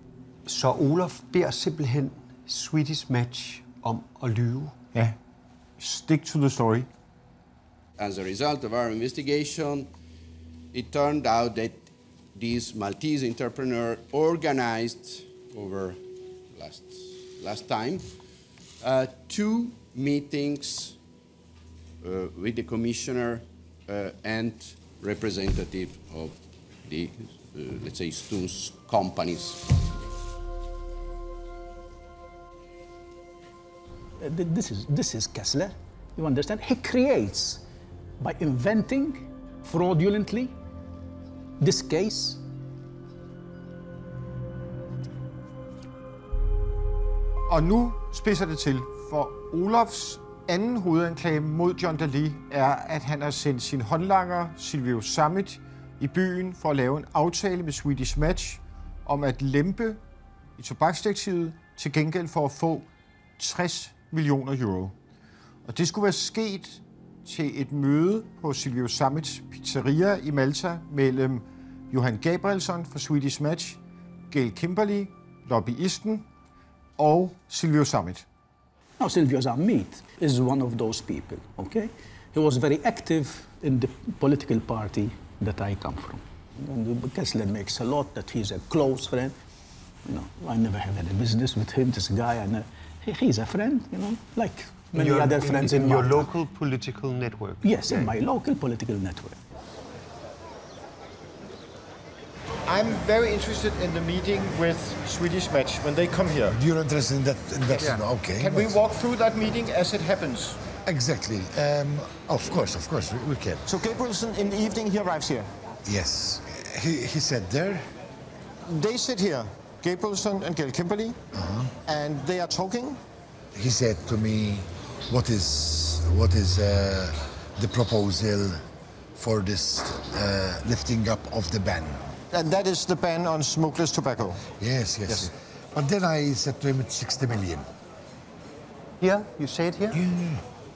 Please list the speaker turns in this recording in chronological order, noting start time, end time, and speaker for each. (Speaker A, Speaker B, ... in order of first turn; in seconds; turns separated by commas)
Speaker A: 0.5-4.8, Speaker B: 5.8-6.9, Speaker C: 8.0-9.9, Speaker C: 10.7-18.1, Speaker C: 18.8-21.0, Speaker C: 22.0-29.6, Speaker D: 34.2-37.6, Speaker D: 38.2-40.6, Speaker D: 41.6-42.4, Speaker B: 47.5-60.0, Speaker B: 60.6-62.9, Speaker B: 63.4-65.0, Speaker B: 65.7-76.3, Speaker B: 77.0-78.3, Speaker D: 79.0-89.4, Speaker D: 90.1-96.3, Speaker A: 94.9-98.1, Speaker D: 97.6-99.4, Speaker B: 102.7-106.6, Speaker E: 106.5-108.8, Speaker B: 107.7-110.6, Speaker E: 110.8-113.7, Speaker B: 113.7-115.5, Speaker E: 115.8-117.9, Speaker B: 118.7-121.2, Speaker E: 121.3-121.8, Speaker B: 121.9-123.0, Speaker E: 123.5-128.6, Speaker E: 129.2-132.1, Speaker B: 132.3-134.4, Speaker E: 134.6-137.7, Speaker A: 139.0-140.0, Speaker E: 139.9-140.4